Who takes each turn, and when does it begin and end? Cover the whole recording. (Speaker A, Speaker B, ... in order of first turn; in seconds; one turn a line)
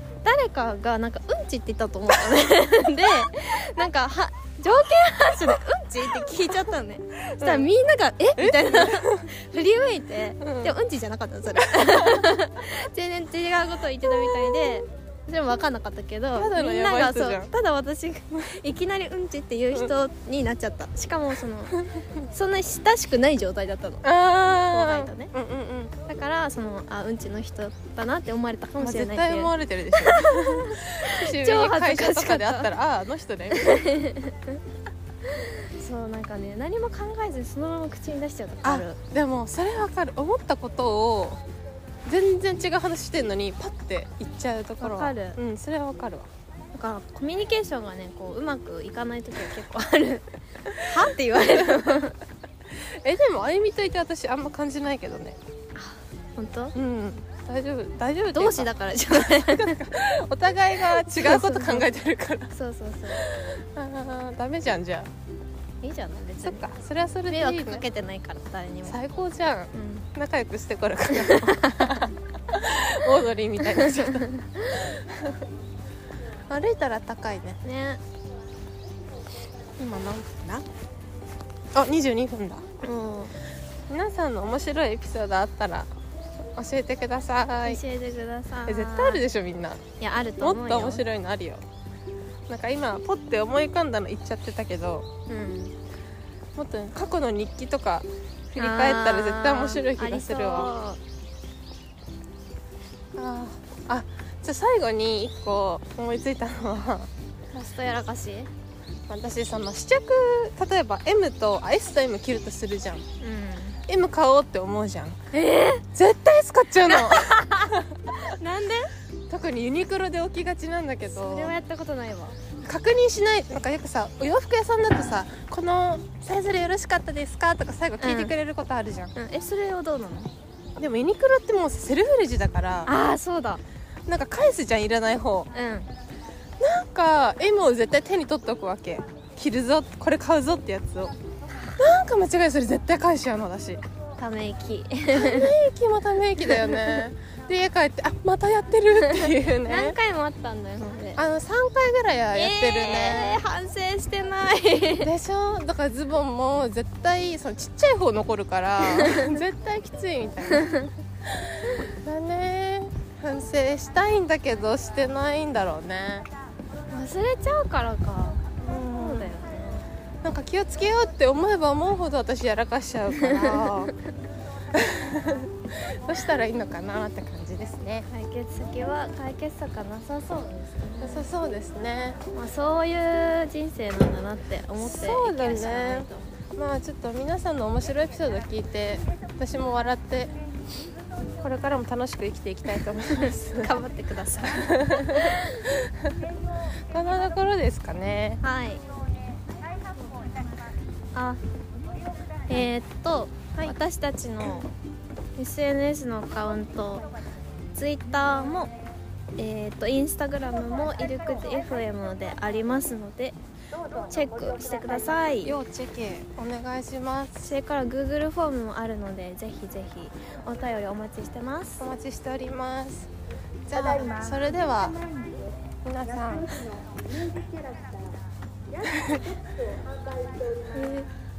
Speaker A: 0.2-24.1
Speaker B: 7.4-7.7
Speaker B: 8.4-9.3
Speaker B: 10.4-10.8
Speaker B: 11.6-12.3
Speaker B: 14.0-14.8
Speaker B: 16.4-17.5
Speaker B: 21.7-22.1
Speaker B: 24.0-25.9
Speaker A: 24.7-25.3
Speaker A: 26.1-32.7
Speaker B: 28.8-34.0
Speaker A: 33.5-34.6
Speaker A: 35.2-39.0
Speaker B: 38.6-41.4
Speaker B: 42.1-46.3
Speaker A: 44.8-45.4
Speaker A: 46.7-50.2
Speaker B: 50.7-52.1
Speaker A: 50.8-52.2
Speaker B: 52.8-55.4
Speaker A: 55.8-56.8
Speaker B: 56.8-62.5
Speaker A: 58.3-59.8
Speaker A: 60.9-61.9
Speaker A: 62.5-63.3
Speaker B: 63.1-65.1
Speaker A: 65.8-66.7
Speaker B: 66.4-67.8
Speaker A: 67.3-69.0
Speaker B: 68.9-75.5
Speaker A: 69.7-70.1
Speaker A: 71.1-72.1
Speaker A: 73.6-74.9
Speaker B: 76.5-77.6
Speaker A: 77.6-78.0
Speaker B: 79.8-80.7
Speaker B: 81.7-82.7
Speaker A: 82.8-83.3
Speaker B: 83.9-85.9
Speaker B: 86.6-87.8
Speaker A: 87.6-89.2
Speaker B: 88.7-89.8
Speaker A: 90.0-91.0
Speaker B: 90.4-91.6
Speaker B: 92.5-95.1
Speaker A: 95.3-95.8
Speaker B: 96.6-100.7
Speaker A: 98.6-101.0
Speaker B: 103.2-107.1
Speaker A: 107.5-108.5
Speaker B: 109.1-113.1
Speaker A: 113.2-113.8
Speaker B: 113.9-115.2
Speaker A: 115.3-115.9
Speaker B: 115.9-118.3
Speaker A: 116.9-118.9
Speaker B: 119.3-121.5
Speaker A: 121.1-122.4
Speaker B: 122.6-129.1
Speaker A: 128.0-128.3
Speaker A: 129.2-130.3
Speaker B: 130.8-132.9
Speaker A: 132.9-133.6
Speaker B: 134.1-135.5
Speaker A: 135.5-135.9
Speaker B: 136.6-141.1
Speaker B: 141.8-143.8
Speaker A: 144.2-145.6
Speaker B: 145.1-150.0
Speaker A: 146.4-146.8
Speaker A: 149.1-151.2
Speaker B: 151.2-153.4
Speaker A: 152.3-155.1
Speaker B: 155.0-166.3
Speaker A: 158.8-159.4
Speaker A: 160.5-160.9
Speaker A: 166.9-169.9
Speaker B: 168.6-169.3
Speaker B: 170.2-173.9
Speaker A: 173.2-173.7
Speaker B: 174.7-178.1
Speaker A: 178.1-181.3
Speaker B: 181.0-182.2
Speaker A: 182.3-186.3
Speaker B: 184.8-190.3
Speaker B: 191.4-193.7
Speaker A: 193.6-195.7
Speaker B: 194.5-196.2
Speaker B: 196.9-198.4
Speaker A: 198.4-198.8
Speaker A: 201.1-201.4
Speaker A: 202.5-204.7
Speaker A: 205.4-207.1
Speaker A: 207.8-208.7
Speaker A: 209.4-213.4
Speaker A: 214.1-215.6
Speaker B: 215.4-217.5
Speaker A: 217.4-221.8
Speaker B: 221.8-223.1
Speaker B: 223.7-225.0
Speaker B: 225.8-226.8
Speaker B: 228.8-229.3
Speaker A: 230.7-231.1